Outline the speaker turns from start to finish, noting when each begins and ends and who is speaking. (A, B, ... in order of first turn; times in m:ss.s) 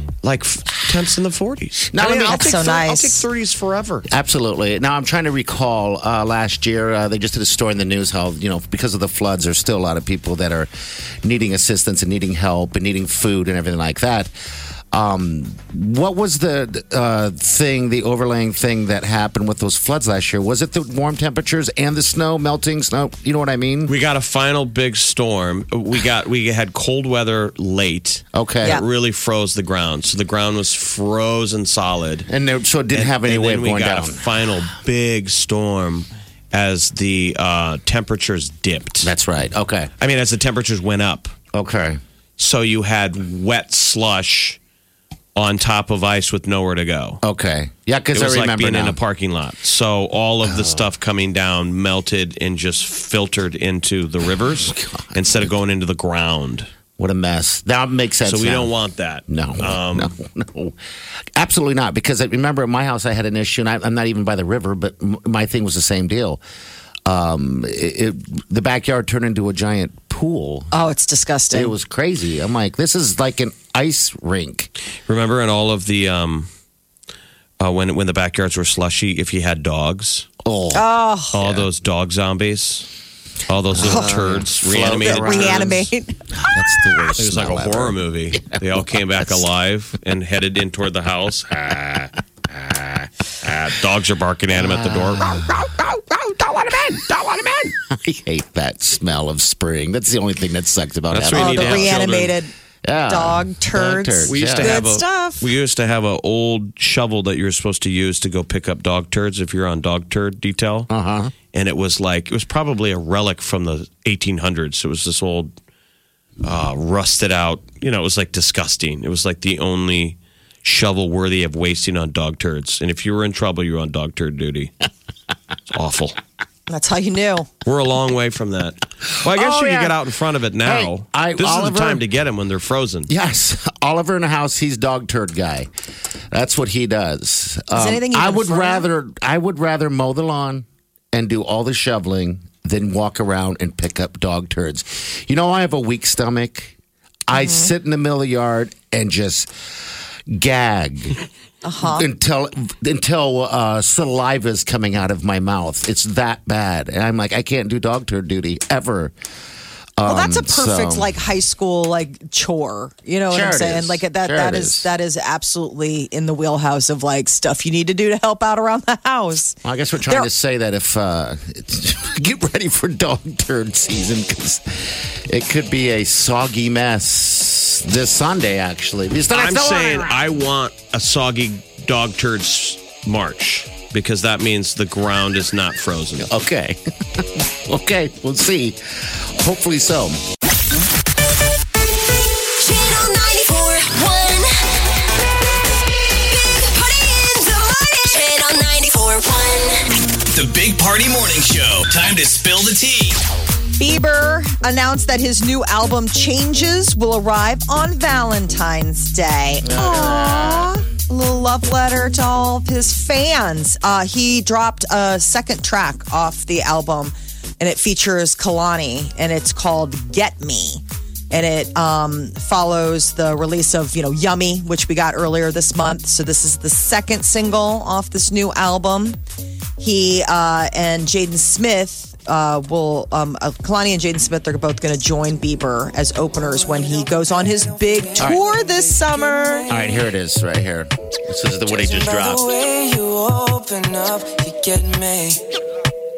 0:00.2-0:04.1 A
0:01.9-0:02.6 B
0:02.1-0:03.2 C
0:04.1-0:10.7 B
0:11.2-0:14.3 B
0:14.9-0:23.9 B
0:23.9-0:32.3 A
0:28.3-0:28.8 B
0:32.3-0:34.3 B
0:32.9-0:39.1 A
0:39.0-0:39.9 B
0:40.0-0:41.3 A
0:41.5-0:42.0 B
0:42.4-0:44.6 A
0:45.4-0:47.2 A
0:47.2-0:49.0 B
0:48.1-0:56.7 A
0:50.4-0:50.9 B
0:54.7-0:55.4 B
0:57.0-0:58.7 B
0:58.2-1:00.1 A
0:59.3-1:00.8 B
1:01.4-1:06.4 B
1:07.1-1:10.7 B
1:10.7-1:11.7 C
1:11.5-1:14.7 B
1:15.1-1:16.5 A
1:17.6-1:20.3 A
1:20.4-1:21.6 B
1:20.7-1:21.3 C
1:21.3-1:22.9 A
1:23.5-1:25.8 A
1:23.7-1:29.4 B
1:25.0-1:26.1 C
1:27.2-1:31.5 A
1:31.5-1:33.6 B
1:33.4-1:35.5 A
1:34.5-1:42.0 B
1:41.1-1:42.4 A
1:41.3-1:42.5 C
1:42.8-1:44.9 B
1:43.1-1:45.5 C
1:44.3-1:50.9 A
1:50.9-1:51.3 B
1:51.5-1:55.5 A
1:56.4-2:04.7 A
2:05.7-2:06.2 A
2:06.7-2:07.5 C
2:07.6-2:13.1 A
2:09.2-2:10.0 B
2:10.6-2:12.0 B
2:13.1-2:15.7 B
2:16.3-2:26.8 B
2:17.7-2:18.9 C
2:27.3-2:29.5 B
2:27.3-2:27.7 C
2:30.3-2:31.2 B
2:31.6-2:32.1 C
2:31.8-2:39.1 B
2:40.0-2:41.1 B
2:40.0-2:50.3 C
2:43.3-2:44.9 B
2:49.6-3:00.2 B
2:59.3-3:06.3 A
3:06.2-3:10.2 B
3:12.6-3:14.5 D
3:16.3-3:19.8 D
3:20.3-3:23.2 E
3:23.8-3:49.2 C
3:29.6-3:30.8 B
3:49.8-3:59.7 C
3:56.6-4:00.0 F
3:59.7-4:02.4 B
4:01.6-4:05.4 F